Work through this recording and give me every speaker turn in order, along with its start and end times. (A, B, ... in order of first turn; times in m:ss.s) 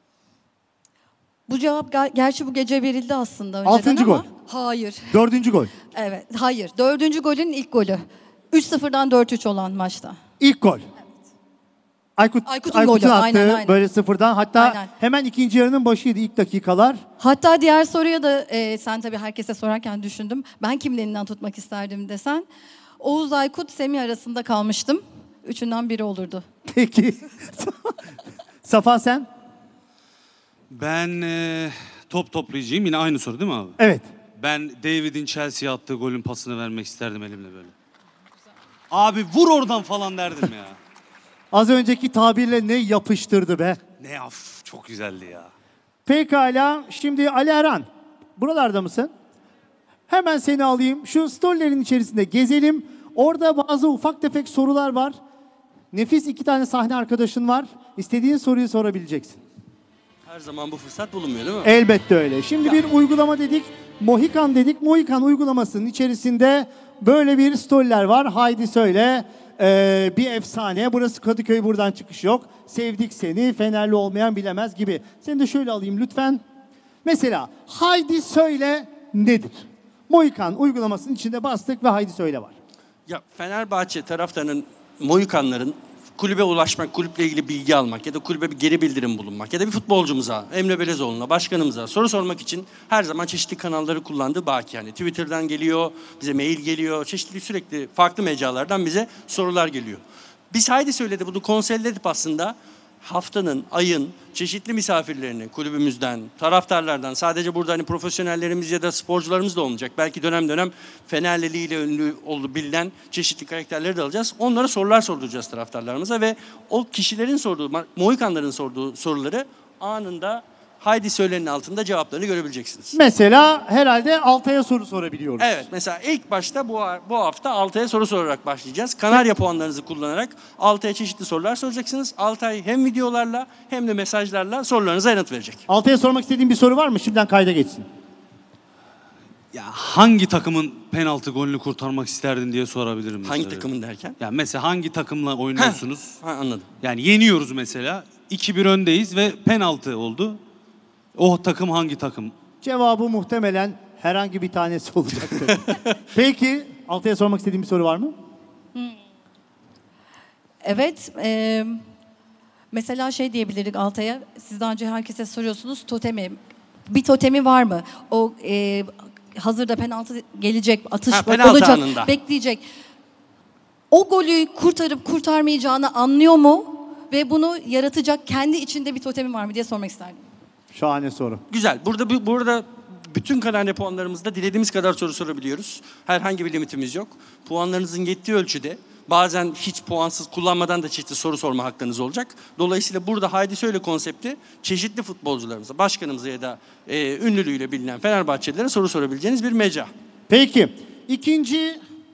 0:01.5-0:05.2 A
0:03.6-0:04.2 B
0:05.1-0:05.7 B
0:05.8-0:10.2 A
0:10.4-0:10.8 B
0:12.2-0:17.0 B
0:12.4-0:13.8 A
0:14.6-0:14.9 A
0:17.2-0:22.5 A
0:23.0-0:26.4 A
0:26.7-0:28.0 B
0:28.6-0:29.3 B
0:30.7-0:33.8 C
0:33.8-0:34.1 B
0:34.4-0:37.7 C
0:38.9-0:40.8 C
0:41.5-0:43.8 B
0:44.0-0:45.5 C
0:46.0-0:49.1 B
0:50.1-0:55.2 B
0:55.9-0:59.4 B
1:00.2-1:01.7 D
1:01.6-1:16.4 B
1:17.0-1:22.6 B
1:23.1-2:02.9 D
2:02.9-2:05.6 B
2:05.4-2:15.6 D
2:15.7-2:17.8 B
2:19.5-2:23.7 C
2:23.2-2:24.2 D
2:24.2-2:26.2 C
2:25.6-2:26.7 D
2:26.8-2:30.4 C
2:31.1-2:32.3 C
2:32.6-2:38.1 B
2:40.6-2:41.8 A
2:42.7-2:52.6 A
2:51.1-2:52.1 D
2:53.9-3:00.2 A
3:00.7-3:01.4 B
3:01.5-3:19.9 D
3:20.3-3:21.8 B